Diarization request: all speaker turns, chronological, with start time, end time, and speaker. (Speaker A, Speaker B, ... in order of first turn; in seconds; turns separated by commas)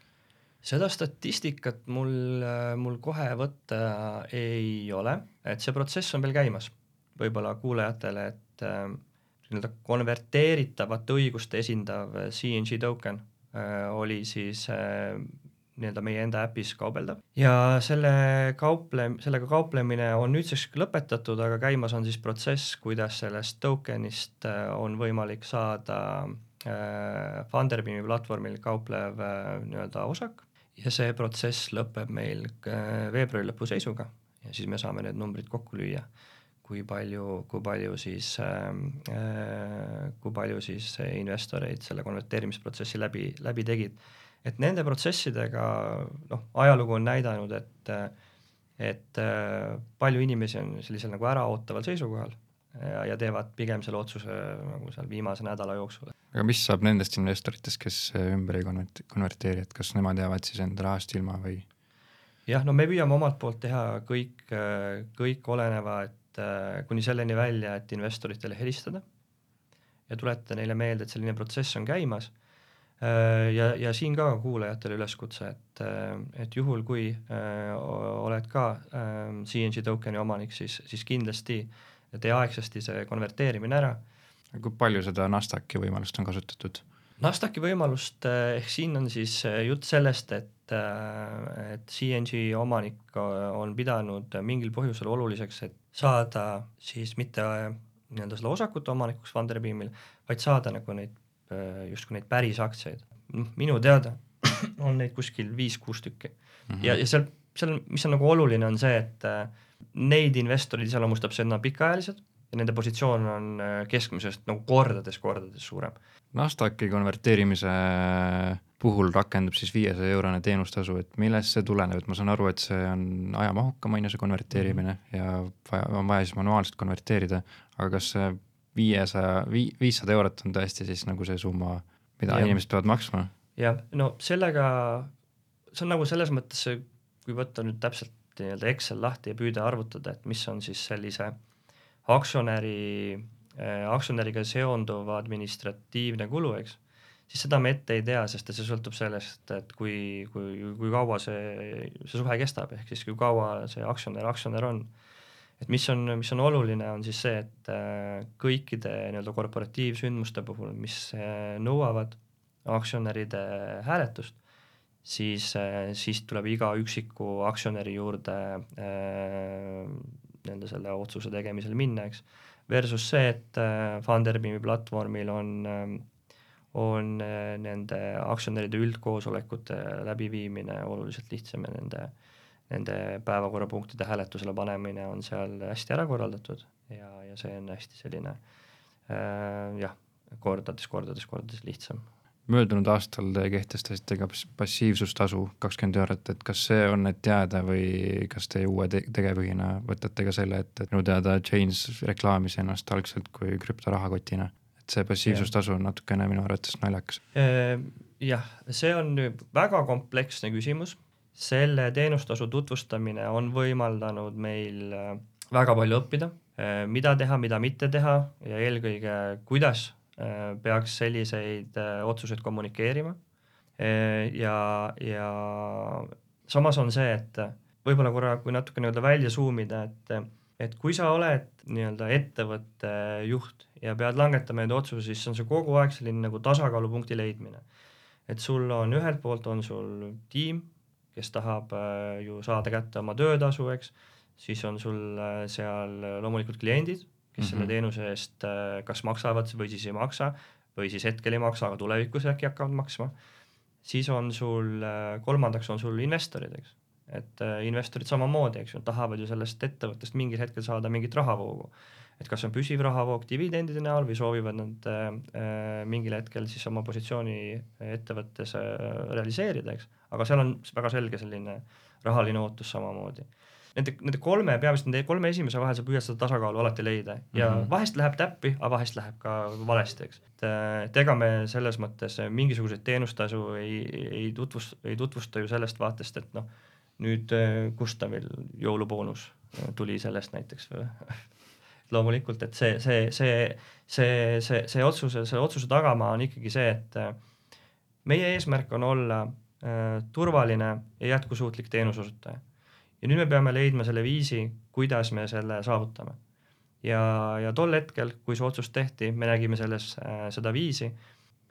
Speaker A: 0.6-36.1, Speaker A: 36.6-48.1, Speaker A: 48.8-56.1, Speaker B: 56.3-61.6, Speaker A: 62.5-69.0, Speaker A: 70.1-72.3, Speaker A: 73.0-84.0, Speaker B: 84.5-86.8, Speaker A: 87.2-116.0, Speaker B: 106.7-107.0, Speaker B: 116.3-133.3, Speaker A: 132.3-132.6, Speaker A: 133.6-135.1, Speaker A: 135.7-141.3, Speaker A: 142.1-154.9, Speaker A: 155.6-164.4, Speaker A: 165.0-176.0, Speaker A: 176.7-182.1, Speaker A: 182.7-188.4, Speaker A: 189.1-192.1, Speaker B: 192.5-207.2, Speaker A: 207.3-223.2, Speaker A: 223.8-237.6, Speaker A: 238.3-253.1, Speaker B: 247.4-247.7, Speaker A: 253.8-286.5, Speaker B: 277.4-277.7, Speaker A: 287.0-291.2, Speaker A: 291.9-297.2, Speaker A: 298.1-302.4, Speaker A: 303.0-306.2, Speaker A: 306.8-310.9